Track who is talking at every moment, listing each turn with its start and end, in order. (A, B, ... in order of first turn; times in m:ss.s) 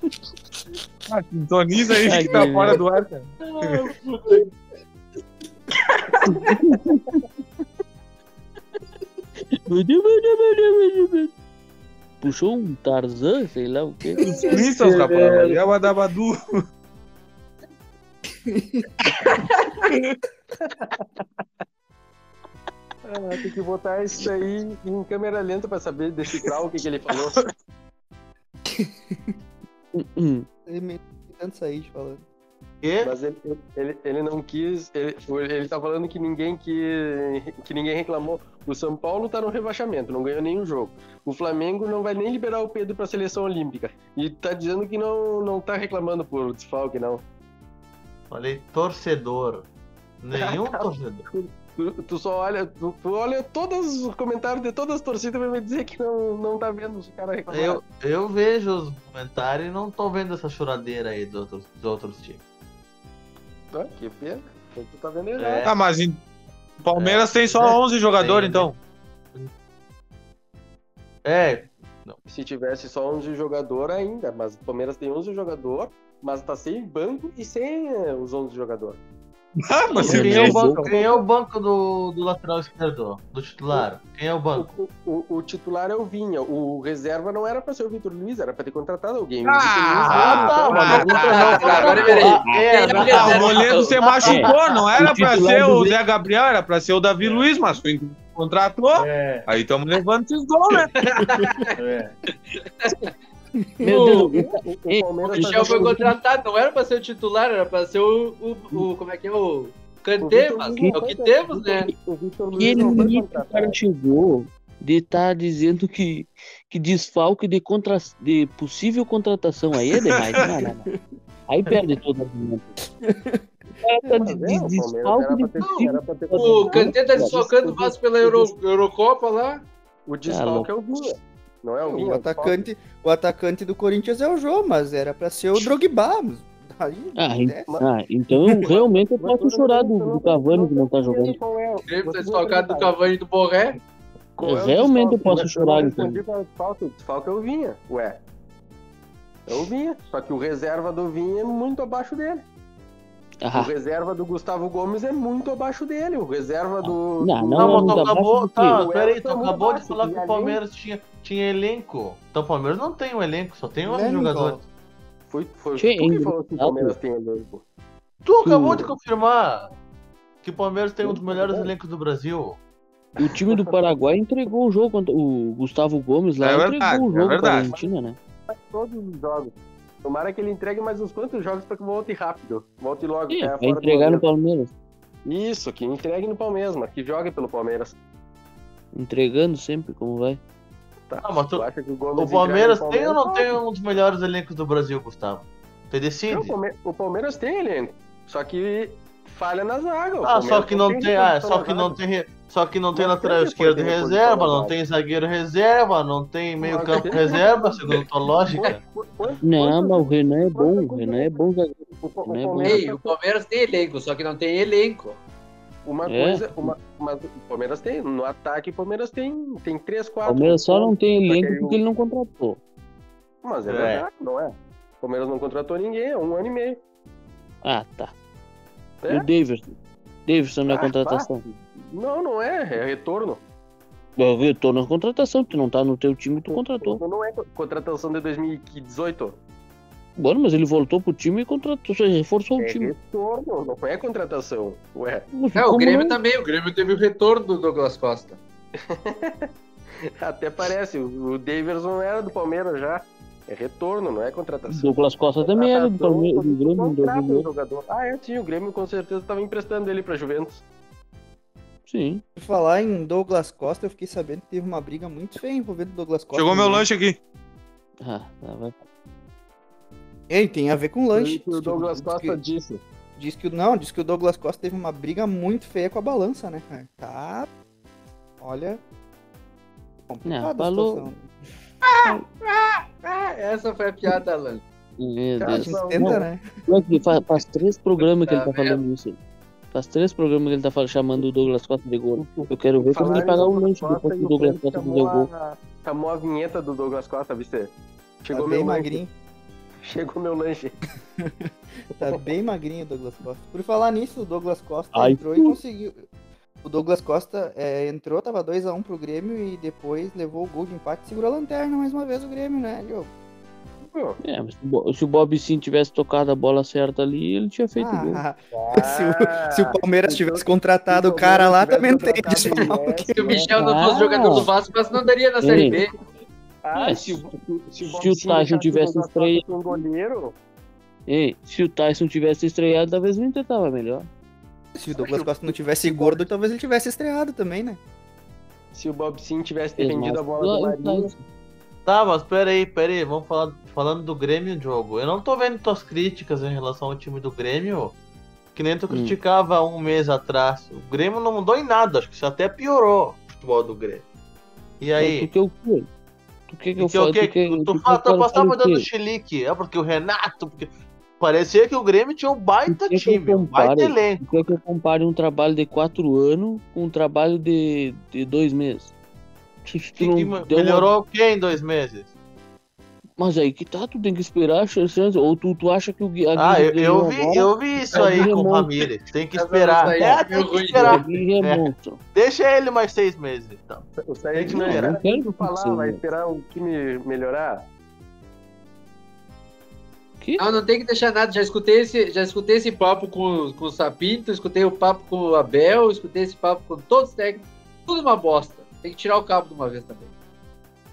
0:01.1-0:03.9 A
0:02.0-0:02.8 B
0:03.4-0:04.4 C
0:06.3-0:07.0 B
0:09.7-0:11.3 B
0:12.2-0:14.3 B
0:14.4-0:16.6 A
0:14.8-0:15.5 C
0:18.5-0:18.9 D
0:19.9-0:20.2 A
0:23.0-0:27.4 E
0:28.7-0:29.3 D
0:29.9-0:30.5 B
0:30.6-0:32.2 D
0:32.8-0:33.2 F
0:33.0-0:47.2 E
0:48.3-0:49.7 F
0:50.2-0:51.2 F
0:50.4-0:57.8 E
0:57.5-1:02.4 F
1:03.7-1:05.7 E
1:05.4-1:05.7 F
1:05.6-1:06.2 A
1:06.8-1:08.8 A
1:06.9-1:08.7 F
1:11.2-1:12.2 F
1:12.3-1:19.0 E
1:19.6-1:20.9 A
1:20.0-1:24.7 F
1:20.0-1:21.0 B
1:20.0-1:21.1 E
1:24.5-1:32.0 E
1:29.4-1:32.4 A
1:30.1-1:34.9 F
1:30.5-1:34.0 C
1:32.9-1:41.1 A
1:34.2-1:36.0 B
1:37.2-1:37.5 F
1:38.9-1:39.5 F
1:41.0-1:41.7 C
1:41.7-1:42.1 F
1:42.6-1:43.0 C
1:43.6-1:44.4 D
1:43.8-1:46.2 B
1:43.8-1:44.3 C
1:44.6-1:46.0 E
1:45.2-1:51.9 C
1:50.2-1:53.8 E
1:50.7-1:51.0 B
1:52.5-2:00.9 B
1:59.9-2:00.5 A
2:01.5-2:02.8 B
2:03.0-2:03.4 D
2:03.8-2:07.5 B
2:04.2-2:08.5 E
2:06.4-2:09.6 C
2:10.1-2:12.6 E
2:10.3-2:10.7 B
2:11.8-2:17.7 D
2:17.2-2:21.4 B
2:18.6-2:23.0 E
2:21.9-2:23.8 C
2:24.4-2:28.2 E
2:24.4-2:26.2 B
2:29.5-2:32.4 E
2:33.4-2:33.7 B
2:33.5-2:38.1 E
2:36.8-2:38.8 B
2:37.6-2:44.6 F
2:38.8-2:40.6 E
2:43.8-2:44.6 D
2:45.3-2:47.6 E
2:45.8-2:47.0 B
2:48.2-2:49.7 F
2:48.4-2:48.9 B
2:50.4-2:52.6 F
2:51.0-2:51.7 E
2:53.2-2:58.2 B
2:53.2-2:53.8 E
2:56.4-2:57.7 A
2:57.6-2:57.9 E
2:58.5-3:04.2 E
3:03.3-3:04.7 B
3:05.2-3:08.0 E
3:08.9-3:10.4 B
3:11.1-3:13.6 E
3:11.2-3:16.5 F
3:16.3-3:22.0 E
3:20.2-3:28.8 F
3:22.9-3:24.8 E
3:26.6-3:27.7 E
3:28.5-3:31.4 E
3:29.4-3:32.8 B
3:32.0-3:33.2 E
3:32.6-3:35.2 C
3:35.8-3:41.8 E
3:36.1-3:36.7 B
3:40.2-3:42.6 B
3:43.4-3:46.8 E
3:43.7-3:44.0 F
3:47.6-3:48.1 B
3:49.0-3:49.3 E
3:49.1-3:51.4 B
3:50.7-3:53.4 E
3:54.2-3:57.0 B
3:56.5-3:59.4 E
4:00.2-4:02.9 B
4:02.6-4:05.2 E
4:05.3-4:06.2 B
4:05.5-4:08.4 C
4:08.8-4:20.6 E
4:14.7-4:17.5 B
4:21.8-4:22.2 B
4:22.4-4:26.9 D
4:26.3-4:27.2 A
4:28.0-4:28.8 B
4:30.3-4:32.4 D
4:31.1-4:32.8 E
4:33.2-4:37.5 D
4:38.4-4:38.8 D
4:40.1-4:41.3 D
4:40.2-4:41.1 B
4:43.0-4:44.6 C
4:45.0-4:49.2 B
4:45.4-4:46.3 E
4:45.5-4:46.5 D
4:48.2-4:48.8 C
4:49.7-4:55.3 B
4:52.2-4:57.7 E
4:58.2-4:59.0 E
4:58.3-4:59.1 D
4:59.8-5:00.8 E
5:01.2-5:01.5 D
5:02.0-5:06.1 D
5:04.9-5:05.6 B
5:06.6-5:13.1 D
5:13.8-5:14.2 E
5:14.2-5:18.2 B
5:17.8-5:23.5 D
5:18.5-5:23.5 E
5:23.1-5:25.9 C
5:23.6-5:24.5 B
5:25.4-5:25.8 B
5:25.6-5:25.8 E
5:26.6-5:30.3 E
5:26.8-5:27.2 B
5:27.8-5:29.5 B
5:31.1-5:34.1 B
5:34.7-5:37.8 D
5:35.0-5:36.2 E
5:38.7-5:41.1 E
5:39.8-5:41.2 B
5:41.8-5:48.0 F
5:48.5-5:54.0 F
5:48.9-5:49.2 B
5:54.8-5:55.3 F
5:55.0-5:55.9 B
5:56.5-5:58.9 B
5:56.8-6:04.6 F
6:02.7-6:08.9 B
6:09.6-6:10.9 B
6:10.0-6:12.1 F
6:13.2-6:18.9 B
6:16.4-6:24.9 F
6:17.9-6:18.2 C
6:19.3-6:21.0 C
6:19.9-6:20.2 B
6:20.8-6:22.0 B
6:24.0-6:27.6 E
6:24.5-6:26.0 B
6:30.2-6:30.5 B
6:30.4-6:40.1 C